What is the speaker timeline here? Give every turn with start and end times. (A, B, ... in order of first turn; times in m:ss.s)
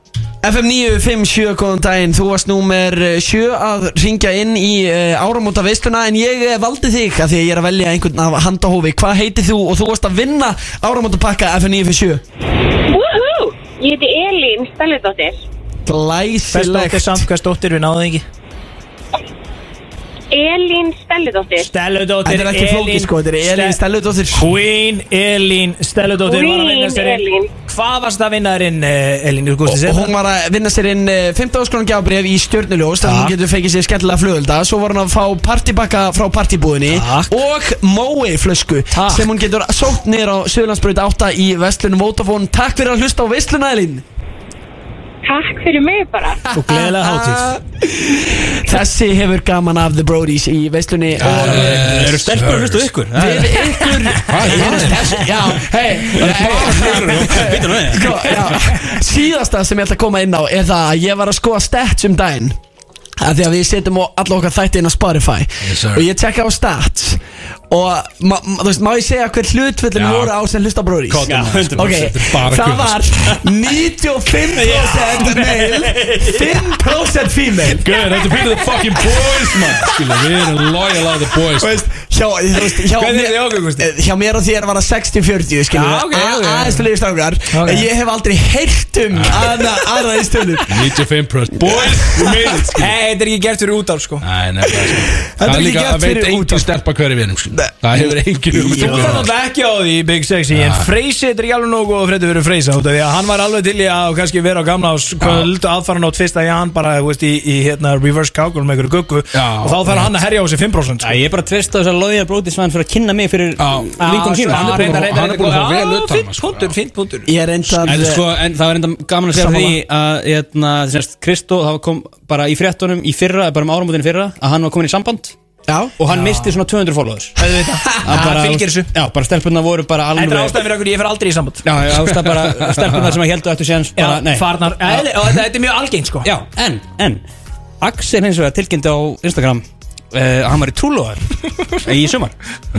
0:00.4-0:12.2 A
0:12.9-0:15.4 B
0:15.8-0:17.3 A
0:16.5-0:18.2 C
0:20.3-0:21.7 B
0:21.6-0:23.8 C
0:22.2-0:24.5 A
0:24.3-0:30.1 C
0:26.2-0:27.5 B
0:29.6-0:44.0 A
0:33.0-0:33.3 C
0:36.9-0:37.3 C
0:38.9-0:39.3 C
0:45.2-0:46.4 B
0:46.5-0:47.6 C
0:46.7-0:51.9 A
0:51.2-0:53.0 D
0:51.2-0:51.9 C
0:51.5-0:54.7 E
0:53.1-1:02.6 A
0:54.2-0:55.3 D
0:56.1-0:58.0 D
0:56.5-0:58.0 E
0:56.6-0:57.1 C
0:58.1-0:58.7 C
1:03.2-1:17.8 A
1:05.6-1:06.0 D
1:09.9-1:10.4 D
1:11.1-1:13.1 D
1:11.3-1:12.2 E
1:14.3-1:16.6 C
1:17.7-1:21.8 D
1:21.6-1:30.7 A
1:22.8-1:23.9 C
1:25.7-1:26.9 C
1:27.5-1:27.9 C
1:29.1-1:29.7 D
1:30.7-1:32.9 D
1:31.9-1:34.2 C
1:34.2-1:39.3 D
1:35.3-1:36.7 A
1:37.6-1:39.2 A
1:38.6-1:51.2 C
1:40.5-1:40.9 D
1:45.2-1:45.5 D
1:49.3-1:50.2 D
1:51.0-1:54.7 E
1:53.6-1:56.7 D
1:54.0-1:57.3 C
1:57.2-1:58.3 A
1:57.8-2:05.3 E
1:59.3-1:59.8 A
2:05.7-2:05.9 A
2:06.0-2:07.4 E
2:06.1-2:06.6 C
2:07.4-2:08.9 C
2:08.0-2:10.6 E
2:10.1-2:11.6 C
2:11.6-2:15.0 E
2:11.8-2:13.2 D
2:14.0-2:16.3 C
2:16.2-2:17.2 E
2:17.8-2:21.2 E
2:21.8-2:22.3 E